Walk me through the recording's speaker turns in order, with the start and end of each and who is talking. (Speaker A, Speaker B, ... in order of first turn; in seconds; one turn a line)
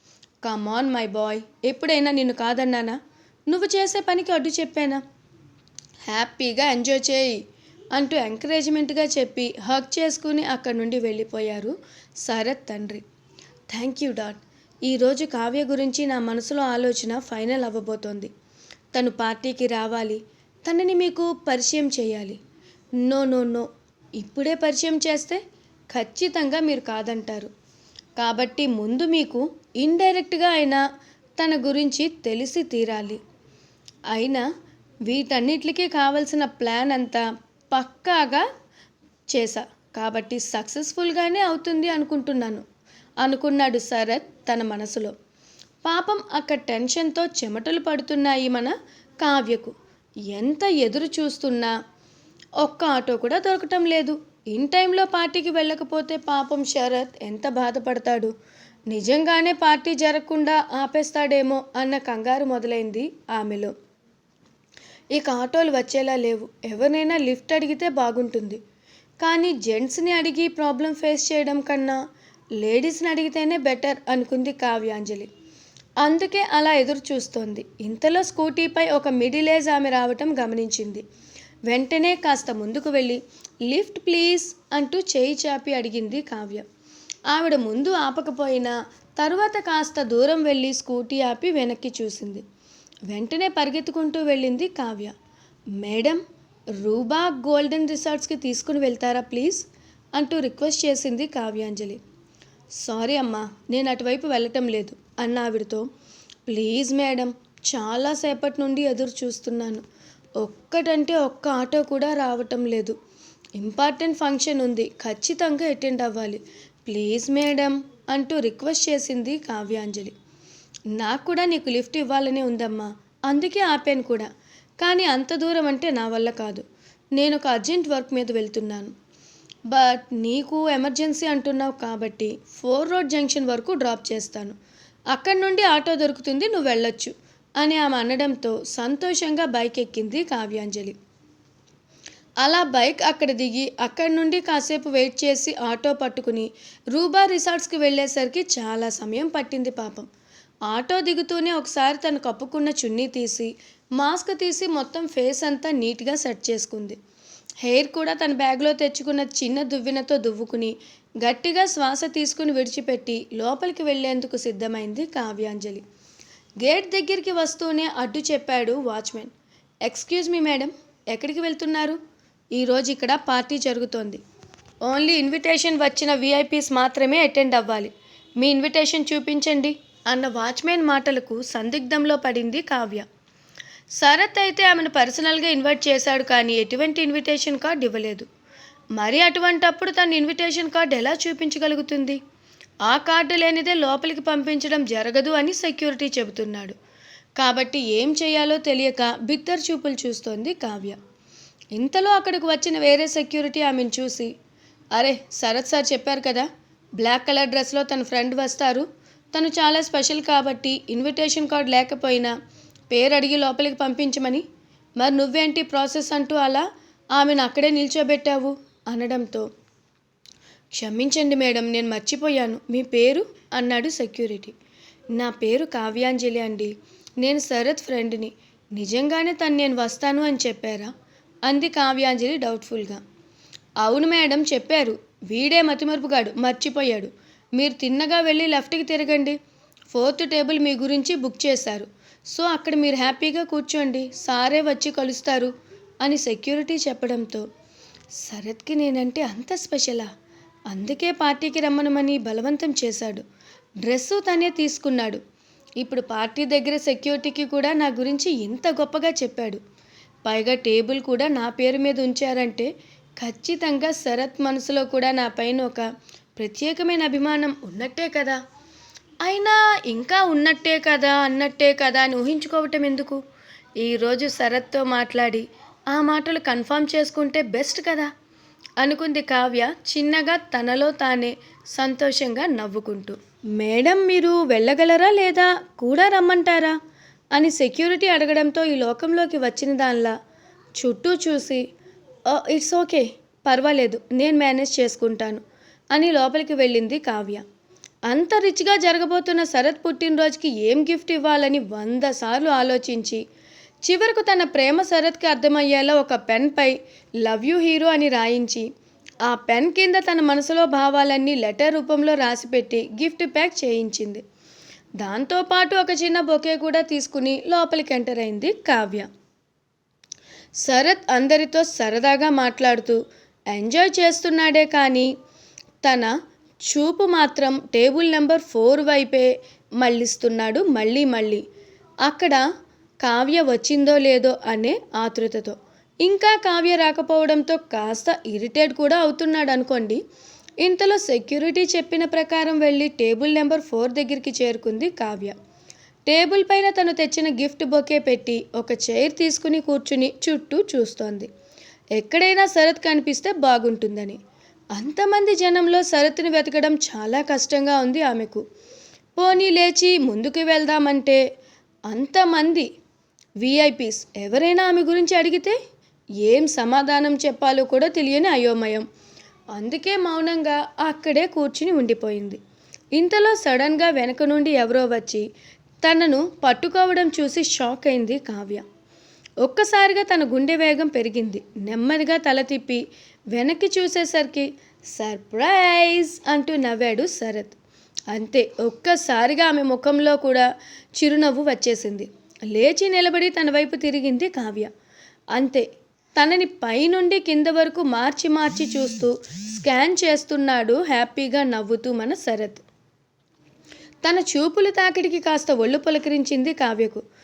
Speaker A: 0.4-5.0
Speaker A: 6.1-7.4
Speaker A: 7.9-11.7
Speaker A: 12.2-13.0
Speaker A: 13.7-18.3
Speaker A: 18.9-22.4
Speaker A: 23.0-23.7
Speaker A: 24.2-25.4
Speaker A: 25.9-27.5
Speaker A: 28.2-30.8
Speaker A: 31.4-33.2
Speaker A: 34.1-34.4
Speaker A: 35.1-38.5
Speaker A: 39.3-42.6
Speaker A: 43.2-45.1
Speaker A: 45.8-49.7
Speaker A: 50.3-51.7
Speaker A: 52.6-58.3
Speaker A: 58.9-63.7
Speaker A: 65.1-68.6
Speaker A: 69.2-72.0
Speaker A: 72.6-75.3
Speaker A: 76.0-81.0
Speaker A: 81.7-86.6
Speaker A: 87.3-92.4
Speaker A: 93.1-95.1
Speaker A: 95.8-96.2
Speaker A: 96.8-102.0
Speaker A: 102.8-105.9
Speaker A: 106.5-109.8
Speaker A: 110.4-113.0
Speaker A: 113.6-120.1
Speaker A: 121.0-124.3
Speaker A: 124.8-126.6
Speaker A: 127.2-128.9
Speaker A: 129.7-134.6
Speaker A: 135.1-141.0
Speaker A: 142.4-150.1
Speaker A: 150.7-157.0
Speaker A: 157.6-165.8
Speaker A: 166.6-169.3
Speaker A: 169.9-172.0
Speaker A: 172.6-174.2
Speaker A: 174.8-183.1
Speaker A: 184.0-188.3
Speaker A: 189.0-192.2
Speaker A: 192.9-196.8
Speaker A: 197.4-201.0
Speaker A: 201.8-204.3
Speaker A: 204.9-212.3
Speaker A: 212.9-214.4
Speaker A: 215.0-219.5
Speaker A: 220.7-224.5
Speaker A: 225.2-230.9
Speaker A: 231.5-233.0
Speaker A: 233.8-239.4
Speaker A: 239.9-247.4
Speaker A: 248.2-250.1
Speaker A: 250.7-253.2
Speaker A: 253.8-255.2
Speaker A: 255.8-259.6
Speaker A: 260.2-265.9
Speaker A: 266.4-268.4
Speaker A: 269.2-273.2
Speaker A: 273.8-278.1
Speaker A: 278.8-286.8
Speaker A: 287.4-290.1
Speaker A: 290.8-291.6
Speaker A: 292.3-295.4
Speaker A: 295.9-297.4
Speaker A: 298.1-303.2
Speaker A: 303.8-308.7
Speaker A: 309.3-314.2
Speaker A: 315.0-319.1
Speaker A: 320.6-323.0
Speaker A: 323.5-325.1
Speaker A: 325.8-331.4
Speaker A: 332.0-332.4
Speaker A: 333.0-340.0
Speaker A: 340.6-345.3
Speaker A: 346.1-351.3
Speaker A: 352.0-354.2
Speaker A: 354.8-358.4
Speaker A: 359.2-361.2
Speaker A: 361.9-362.7
Speaker A: 363.4-365.6
Speaker A: 366.2-368.9
Speaker A: 369.5-372.4
Speaker A: 373.0-375.2
Speaker A: 375.8-378.6
Speaker A: 379.4-382.8
Speaker A: 383.3-387.6
Speaker A: 388.1-394.7
Speaker A: 395.3-395.6
Speaker A: 396.2-402.6
Speaker A: 404.0-407.0